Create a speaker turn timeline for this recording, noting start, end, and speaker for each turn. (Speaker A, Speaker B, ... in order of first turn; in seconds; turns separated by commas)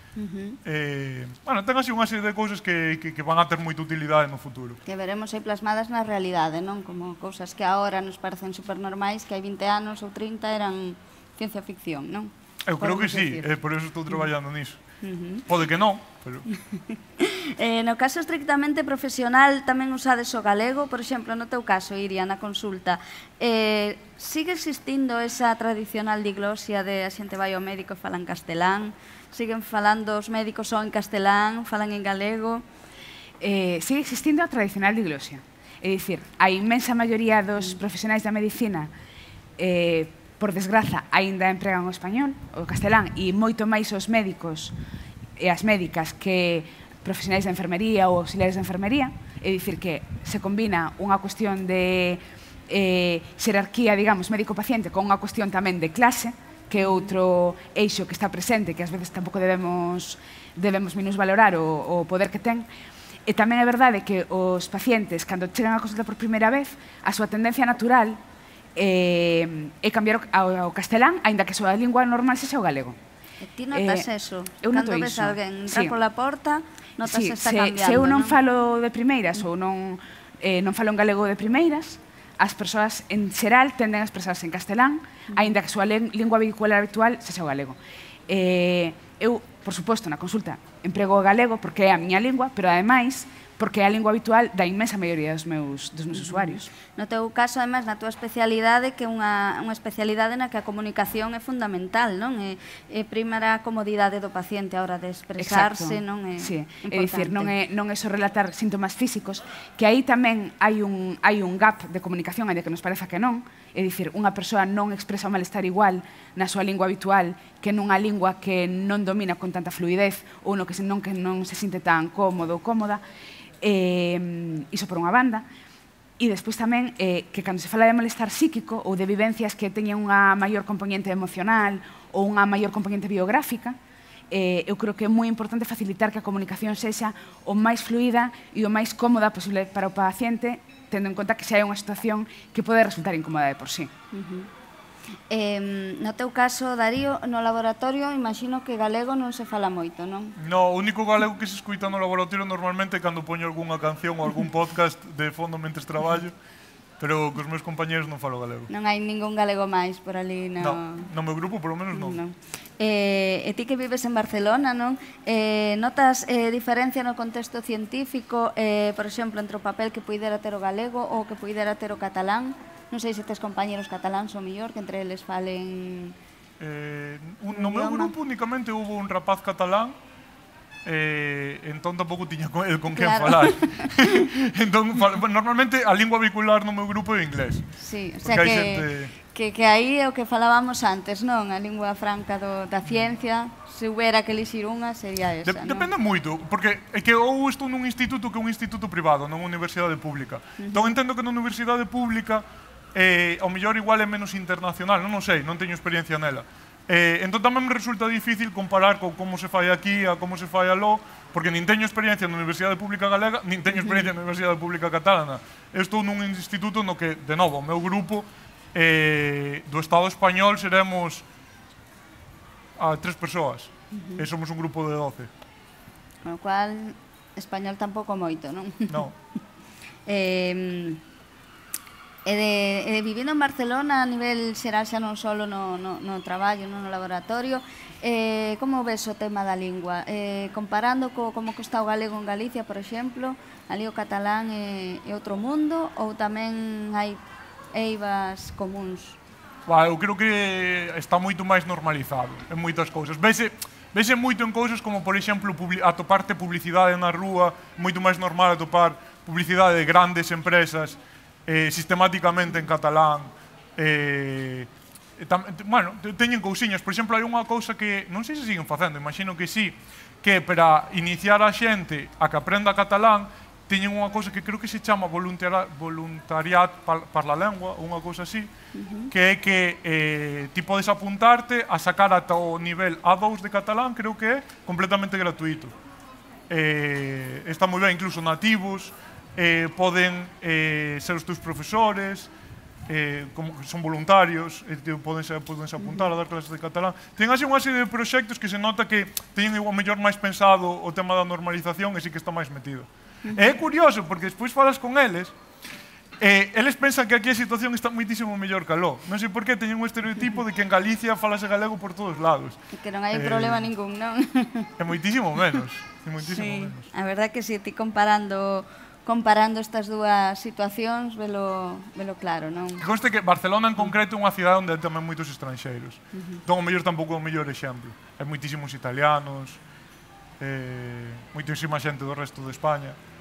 Speaker A: 0.1-0.6, Speaker B: 0.6-4.8, Speaker A: 4.8-13.5, Speaker B: 12.7-14.8, Speaker A: 15.0-15.4, Speaker B: 15.4-16.5, Speaker A: 16.5-32.6, Speaker C: 33.4-38.9, Speaker C: 39.6-44.7, Speaker C: 45.4-62.7, Speaker A: 56.8-57.1, Speaker C: 63.2-68.2, Speaker C: 68.8-73.0, Speaker A: 73.4-78.4, Speaker C: 73.7-74.1, Speaker C: 74.6-75.9, Speaker C: 77.0-87.8, Speaker C: 88.3-96.7, Speaker A: 96.1-107.5, Speaker C: 105.4-123.0, Speaker C: 123.6-125.5, Speaker C: 126.2-133.8, Speaker C: 134.3-143.9, Speaker A: 144.1-144.5, Speaker A: 145.3-150.3, Speaker B: 150.4-156.3, Speaker B: 157.0-158.7, Speaker A: 158.7-161.1, Speaker B: 160.6-162.2, Speaker A: 161.9-176.2, Speaker B: 176.6-180.0, Speaker A: 177.5-178.1, Speaker B: 180.8-189.1, Speaker A: 182.9-184.2, Speaker A: 187.8-195.9, Speaker B: 195.4-221.2, Speaker A: 200.6-200.9, Speaker B: 222.8-225.3, Speaker A: 223.9-224.2, Speaker A: 226.2-229.1, Speaker A: 230.1-231.0, Speaker A: 232.2-247.2, Speaker A: 247.7-249.2, Speaker B: 249.7-278.5, Speaker A: 278.7-279.1, Speaker B: 279.1-285.7, Speaker B: 286.5-292.3, Speaker B: 292.9-305.3, Speaker A: 295.8-296.1, Speaker B: 306.2-312.6, Speaker A: 312.7-314.7, Speaker B: 313.1-313.7, Speaker B: 314.8-316.9, Speaker A: 316.2-322.8, Speaker B: 322.8-329.6, Speaker A: 326.1-326.4, Speaker B: 330.4-333.0